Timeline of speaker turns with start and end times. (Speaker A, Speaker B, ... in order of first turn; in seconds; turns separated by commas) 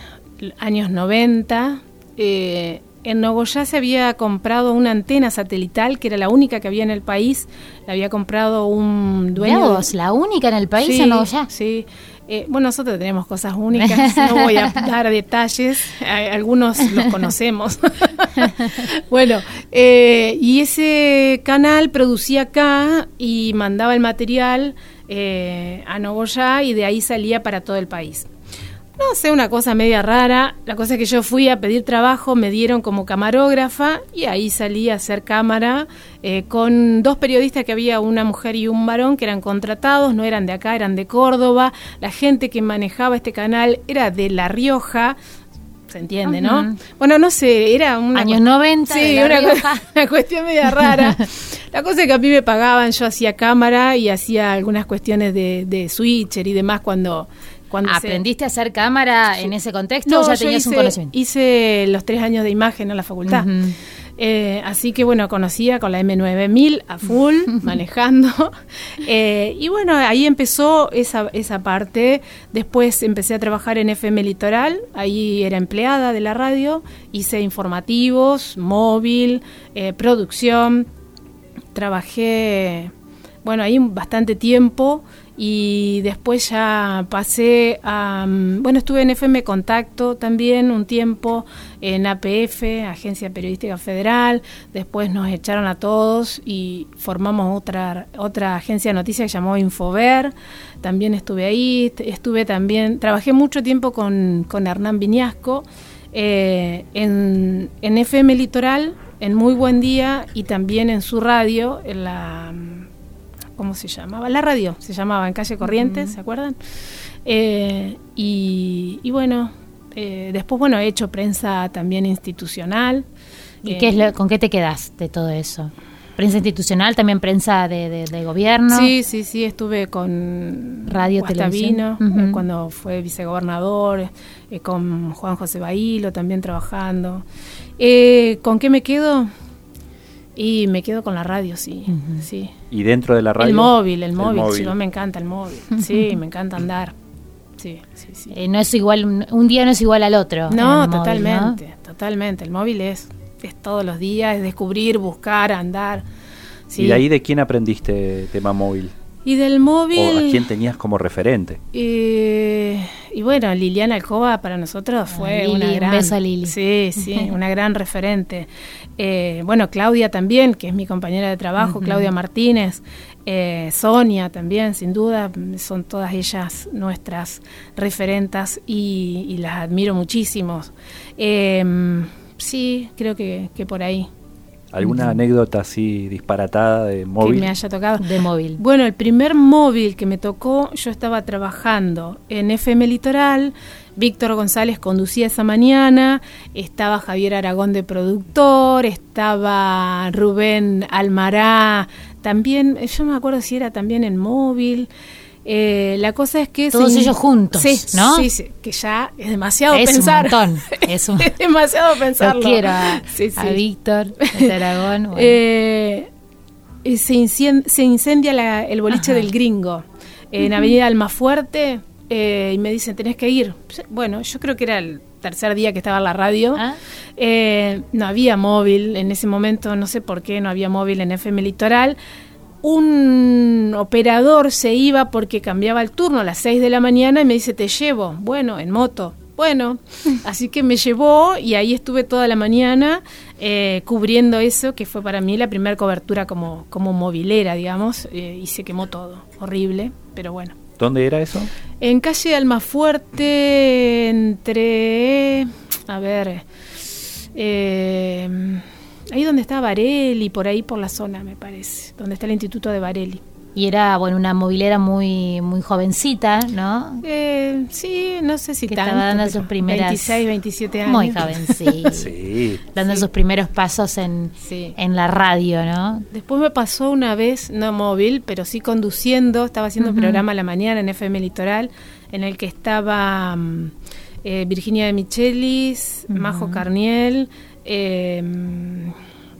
Speaker A: 0.4-9.9, Speaker B: 9.4-11.5, Speaker A: 10.8-28.3, Speaker B: 13.7-14.8, Speaker A: 29.0-45.2, Speaker A: 45.9-58.2, Speaker B: 46.2-46.8, Speaker B: 48.1-49.8, Speaker B: 57.8-61.1, Speaker A: 60.0-63.5, Speaker B: 63.3-63.8, Speaker A: 64.2-80.8, Speaker A: 81.7-82.9, Speaker A: 83.4-112.9, Speaker A: 113.6-116.5, Speaker B: 115.7-116.1, Speaker A: 117.2-123.0, Speaker A: 123.6-124.1, Speaker B: 123.6-128.9, Speaker A: 128.7-137.2, Speaker B: 130.9-132.4, Speaker A: 137.8-139.3, Speaker A: 140.3-142.5, Speaker B: 141.9-142.2, Speaker C: 142.7-144.7, Speaker A: 143.4-146.9, Speaker A: 147.6-148.3, Speaker B: 148.3-151.6, Speaker A: 150.5-156.0, Speaker A: 156.7-157.0, Speaker C: 156.8-158.9, Speaker A: 159.2-160.5, Speaker C: 159.9-161.6, Speaker A: 161.7-184.1, Speaker B: 165.1-166.5, Speaker B: 167.1-167.3, Speaker B: 171.6-172.1, Speaker C: 184.7-187.5, Speaker B: 184.8-185.2, Speaker A: 187.2-188.1, Speaker B: 188.0-188.6, Speaker A: 188.6-204.9, Speaker A: 205.4-213.6, Speaker B: 206.7-208.3, Speaker B: 209.7-211.3, Speaker B: 212.2-215.4, Speaker A: 214.2-214.5, Speaker A: 215.1-216.1, Speaker A: 216.8-226.6, Speaker B: 218.9-219.3, Speaker B: 220.4-220.7, Speaker A: 227.2-232.0, Speaker A: 232.6-250.6, Speaker C: 250.8-251.5, Speaker A: 251.8-256.4, Speaker A: 257.3-263.2, Speaker B: 263.5-267.0, Speaker A: 267.0-272.0, Speaker B: 268.7-270.2, Speaker B: 270.9-272.1, Speaker C: 271.9-272.6, Speaker B: 272.7-276.1, Speaker A: 272.8-273.1, Speaker A: 274.4-274.8, Speaker A: 276.1-283.7, Speaker B: 279.8-280.2, Speaker A: 284.2-288.9, Speaker B: 286.1-286.6